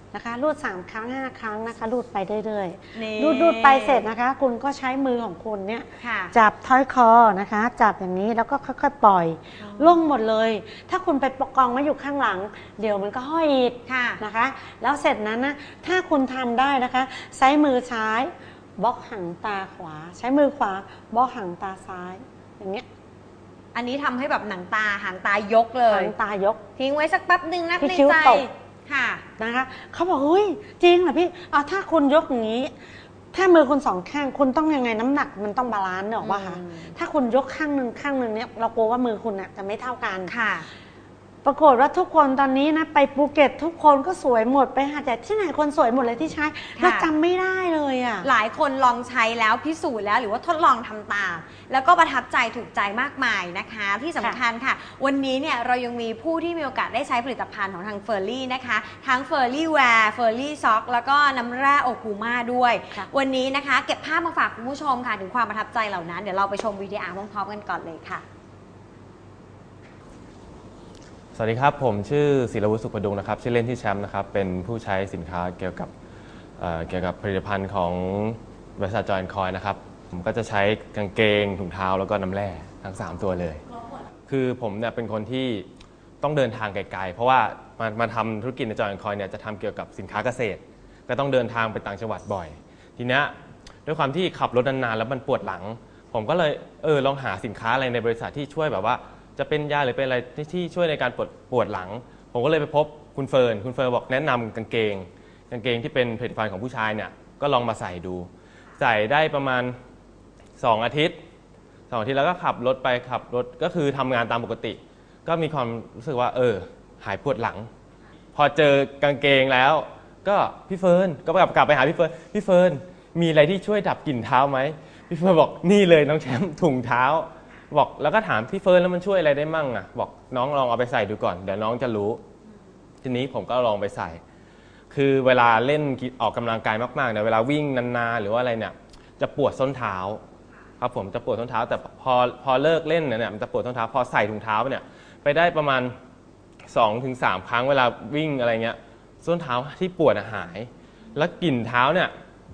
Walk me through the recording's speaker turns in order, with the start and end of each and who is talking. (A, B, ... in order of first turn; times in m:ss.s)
0:00.1-0:22.8 A
0:02.9-0:04.1 B
0:06.0-0:06.3 B
0:09.6-0:10.0 B
0:13.9-0:14.2 B
0:23.7-0:26.1 B
0:25.9-0:26.6 A
0:26.8-0:29.2 B
0:27.8-0:28.5 A
0:29.4-0:32.7 A
0:33.3-0:40.3 A
0:36.2-0:36.9 B
0:40.3-0:40.7 B
0:41.4-0:48.3 A
0:46.8-0:47.1 B
0:48.2-1:08.2 B
1:11.4-1:15.9 C
1:16.6-1:23.6 C
1:24.3-1:25.7 C
1:26.2-1:33.4 C
1:33.9-1:49.8 C
1:50.6-1:51.2 C
1:51.9-1:57.7 C
1:58.4-2:12.2 C
2:13.0-2:14.2 C
2:14.9-2:20.2 C
2:20.8-2:26.0 C
2:26.7-2:32.1 C